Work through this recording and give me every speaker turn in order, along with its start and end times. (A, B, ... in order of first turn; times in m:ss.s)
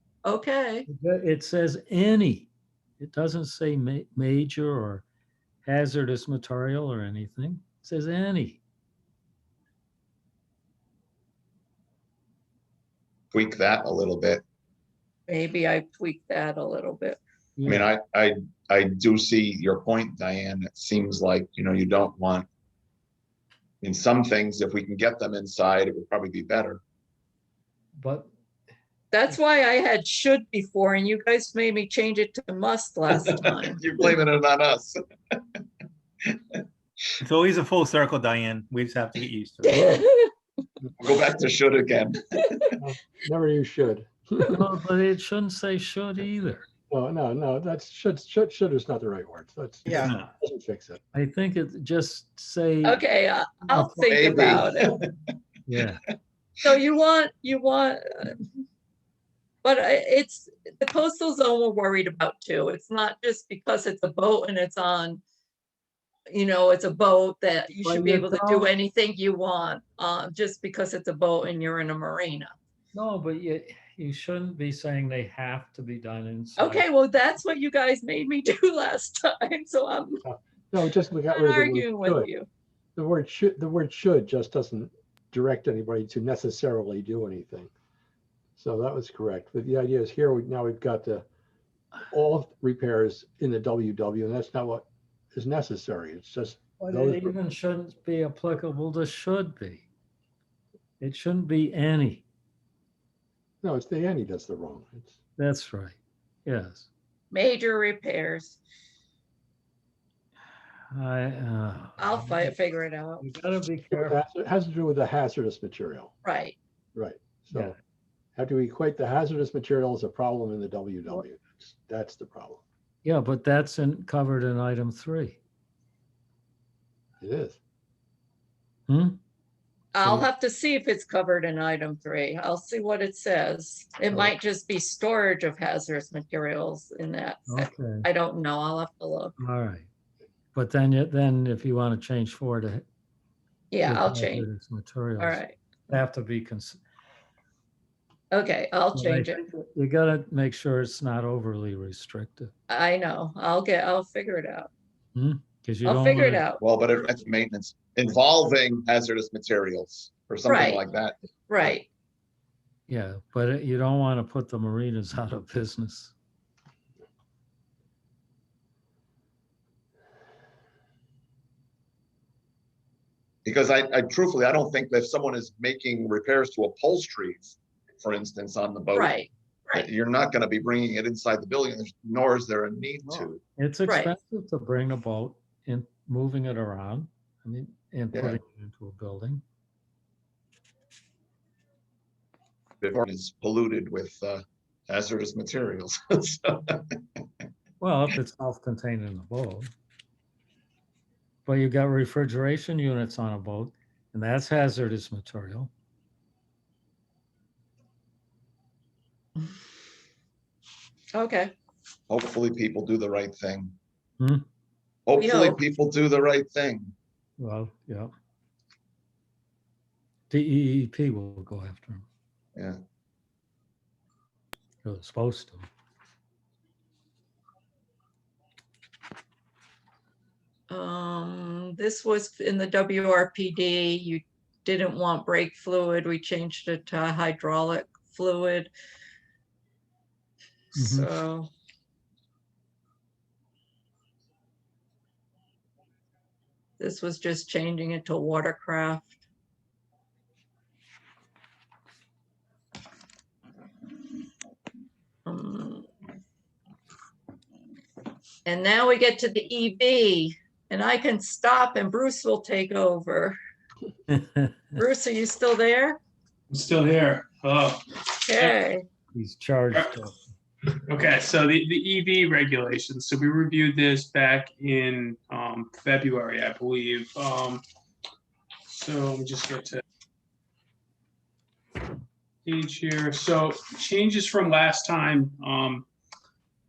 0:00.2-0:00.9 A
0:00.9-0:05.0 B
0:05.6-0:08.6 B
0:13.3-0:14.4 C
0:15.3-0:17.2 A
0:17.6-0:17.9 B
0:17.6-0:22.5 C
0:23.8-0:26.8 C
0:28.0-0:28.3 B
0:29.1-0:33.8 A
0:33.5-0:35.4 C
0:37.2-0:39.8 D
0:39.7-0:40.3 A
0:40.8-0:41.2 E
0:41.0-0:42.8 C
0:42.8-0:44.5 E
0:44.5-0:46.7 B
0:46.9-0:51.0 E
0:50.0-0:50.3 D
0:51.1-0:53.1 B
0:52.8-0:54.9 A
0:53.6-0:54.7 B
0:54.1-0:55.1 C
0:55.7-0:56.0 B
0:56.6-0:58.4 A
0:59.6-1:05.2 A
1:06.3-1:12.5 A
1:07.8-1:08.7 B
1:12.9-1:16.9 B
1:16.6-1:20.2 A
1:20.2-1:22.3 E
1:21.3-1:22.5 A
1:23.0-1:27.7 E
1:28.6-1:31.3 E
1:32.1-1:37.3 E
1:36.8-1:39.9 B
1:41.0-1:42.3 B
1:43.6-1:45.2 E
1:45.4-1:46.9 B
1:47.3-1:48.6 A
1:50.9-1:52.6 B
1:52.0-1:53.3 A
1:53.2-1:54.2 B
1:53.9-1:56.1 E
1:56.2-1:56.6 A
1:57.0-1:57.8 E
1:58.4-2:02.6 E
2:03.0-2:05.4 B
2:07.2-2:07.6 E
2:08.9-2:09.2 B
2:09.9-2:19.4 A
2:14.1-2:14.4 E
2:17.5-2:18.1 B
2:19.4-2:19.9 B
2:20.5-2:22.9 B
2:23.7-2:24.5 A
2:23.8-2:26.8 B
2:25.2-2:25.6 A
2:28.3-2:29.4 A
2:28.9-2:32.5 B
2:32.7-2:34.7 A
2:35.2-2:36.5 B
2:35.8-2:36.6 A
2:36.6-2:41.2 C
2:40.5-2:40.8 A
2:41.5-2:41.9 A
2:42.9-2:46.1 B
2:53.4-2:59.2 C
2:59.0-2:59.8 A
2:59.7-3:03.4 C
3:03.6-3:09.4 B
3:03.9-3:04.1 A
3:08.1-3:08.4 C
3:12.8-3:17.0 C
3:17.8-3:19.7 B
3:21.5-3:25.7 B
3:31.1-3:31.5 A
3:32.1-3:33.8 C
3:34.2-3:34.4 B
3:35.1-3:36.9 C
3:35.2-3:35.6 A
3:37.4-3:38.1 B
3:40.3-3:42.1 B
3:44.8-3:45.7 B
3:50.7-3:58.7 A
4:00.8-4:01.1 B
4:00.8-4:01.5 A
4:06.8-4:09.1 A
4:15.3-4:15.9 A
4:18.5-4:23.4 A
4:24.1-4:24.8 B
4:24.8-4:26.0 A
4:26.5-4:28.6 F
4:28.3-4:28.8 A
4:29.1-4:30.2 B
4:30.7-4:37.6 F
4:38.7-4:39.8 F
4:42.4-4:45.9 F